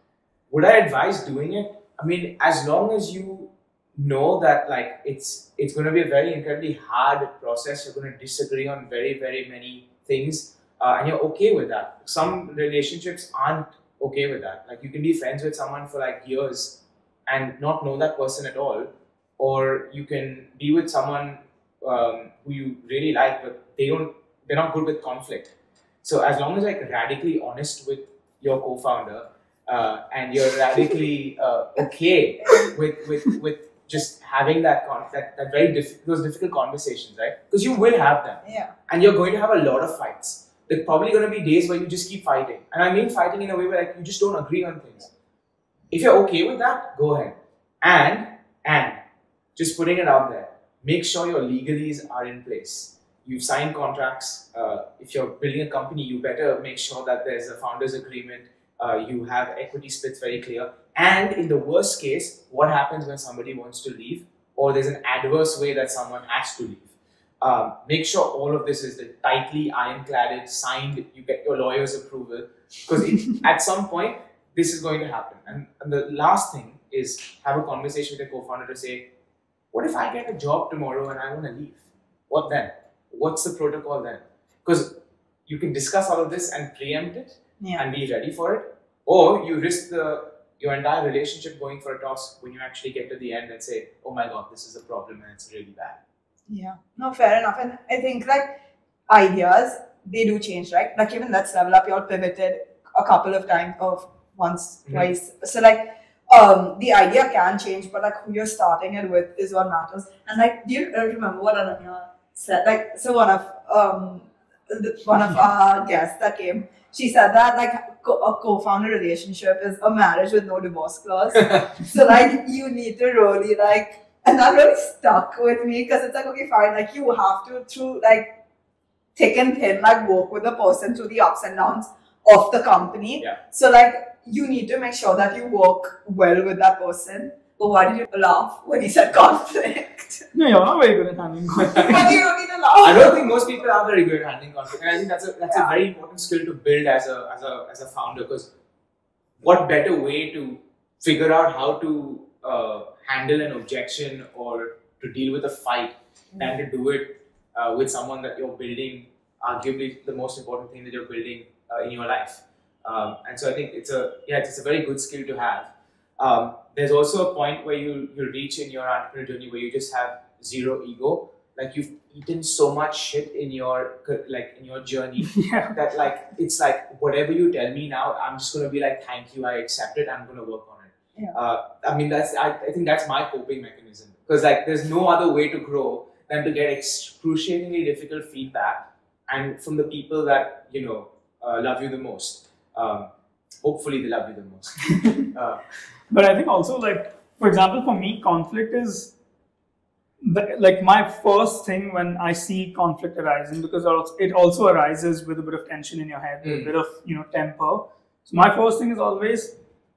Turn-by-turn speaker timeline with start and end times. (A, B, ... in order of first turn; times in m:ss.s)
0:00.5-0:45.1 A
0:32.4-0:32.8 B
0:38.4-0:38.7 B
0:45.9-0:49.0 A
0:49.6-1:19.1 A
1:19.7-1:36.0 A
1:36.5-2:08.4 B
1:44.9-1:45.1 A
2:09.2-2:20.3 B
2:20.3-2:22.2 C
2:21.8-2:23.3 B
2:22.8-2:28.5 A
2:25.5-2:25.7 B
2:29.4-3:13.1 A
2:55.3-2:55.8 C
3:13.6-3:15.6 A
3:14.9-3:15.3 C
3:16.1-3:19.1 C
3:20.2-3:29.6 C
3:26.4-3:26.7 A